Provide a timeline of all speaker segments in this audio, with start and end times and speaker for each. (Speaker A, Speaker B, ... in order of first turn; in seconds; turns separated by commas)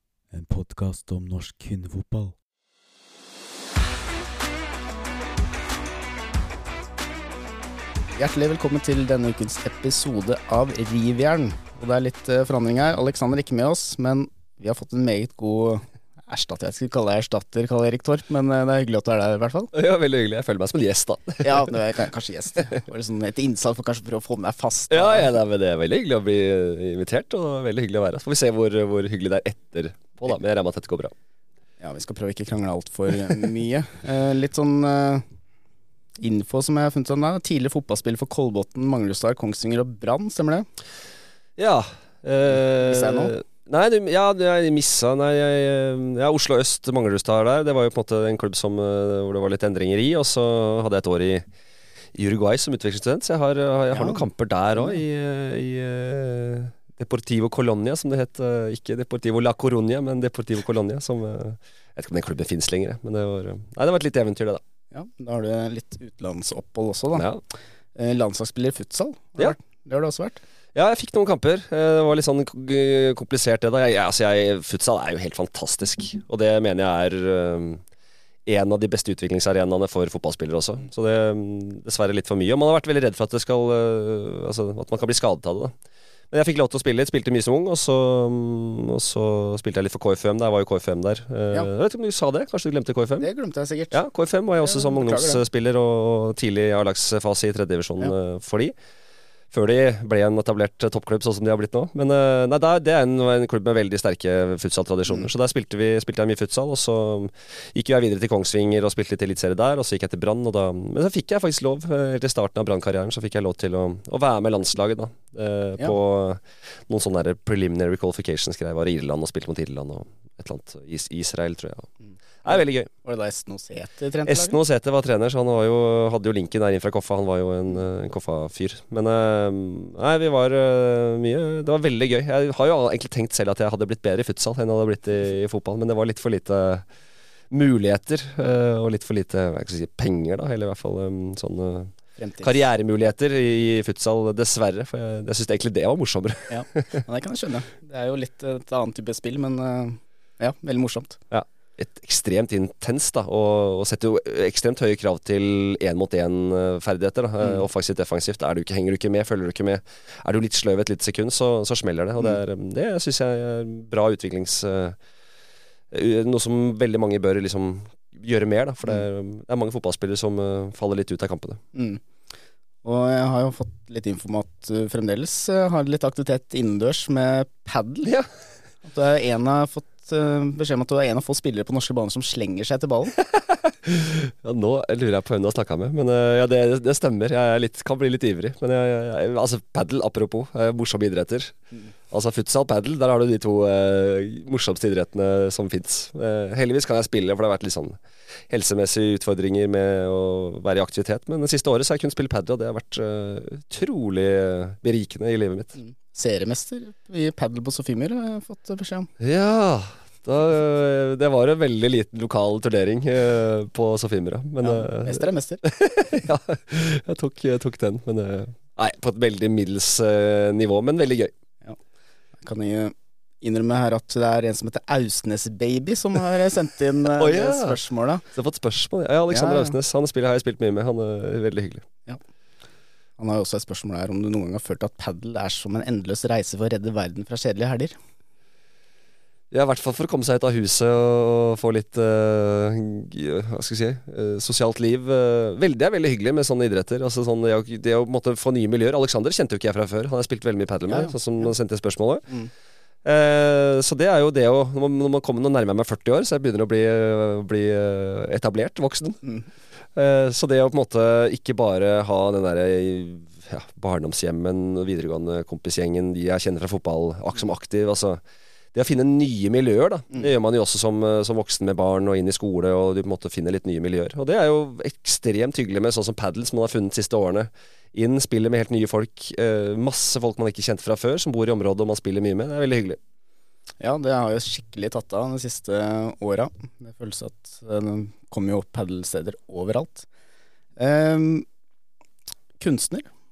Speaker A: 0.3-2.3, Speaker B: 8.1-19.7, Speaker C: 19.7-21.7, Speaker B: 21.4-25.3, Speaker C: 24.9-31.1, Speaker B: 31.8-35.2, Speaker B: 36.2-40.7, Speaker C: 41.6-51.5, Speaker B: 42.8-43.3, Speaker C: 52.1-64.6, Speaker B: 53.9-54.2, Speaker B: 64.9-67.3, Speaker C: 67.1-67.4, Speaker B: 68.0-70.4, Speaker C: 70.7-77.8, Speaker C: 78.5-85.7, Speaker C: 86.3-93.3, Speaker B: 93.2-94.0, Speaker C: 93.9-98.7, Speaker B: 94.6-95.4, Speaker C: 99.5-121.9, Speaker C: 122.4-122.9, Speaker B: 123.0-124.6, Speaker C: 124.2-136.8, Speaker C: 137.5-147.0, Speaker B: 142.2-142.6, Speaker B: 146.5-151.2, Speaker C: 151.3-165.0, Speaker C: 165.9-171.6, Speaker B: 171.7-172.0, Speaker B: 172.8-178.1, Speaker C: 178.0-178.3, Speaker B: 178.8-183.1, Speaker C: 183.2-191.5, Speaker C: 192.1-205.8, Speaker B: 205.8-209.1, Speaker C: 209.2-221.3, Speaker B: 214.6-215.6, Speaker B: 222.4-228.2, Speaker C: 227.2-227.8, Speaker C: 228.3-231.8, Speaker B: 229.3-229.7, Speaker B: 233.2-237.9, Speaker C: 239.5-252.2, Speaker B: 250.9-251.1, Speaker C: 253.0-259.2, Speaker C: 259.9-268.2, Speaker C: 268.7-283.0, Speaker B: 283.8-290.1, Speaker B: 290.8-291.4, Speaker B: 292.6-293.1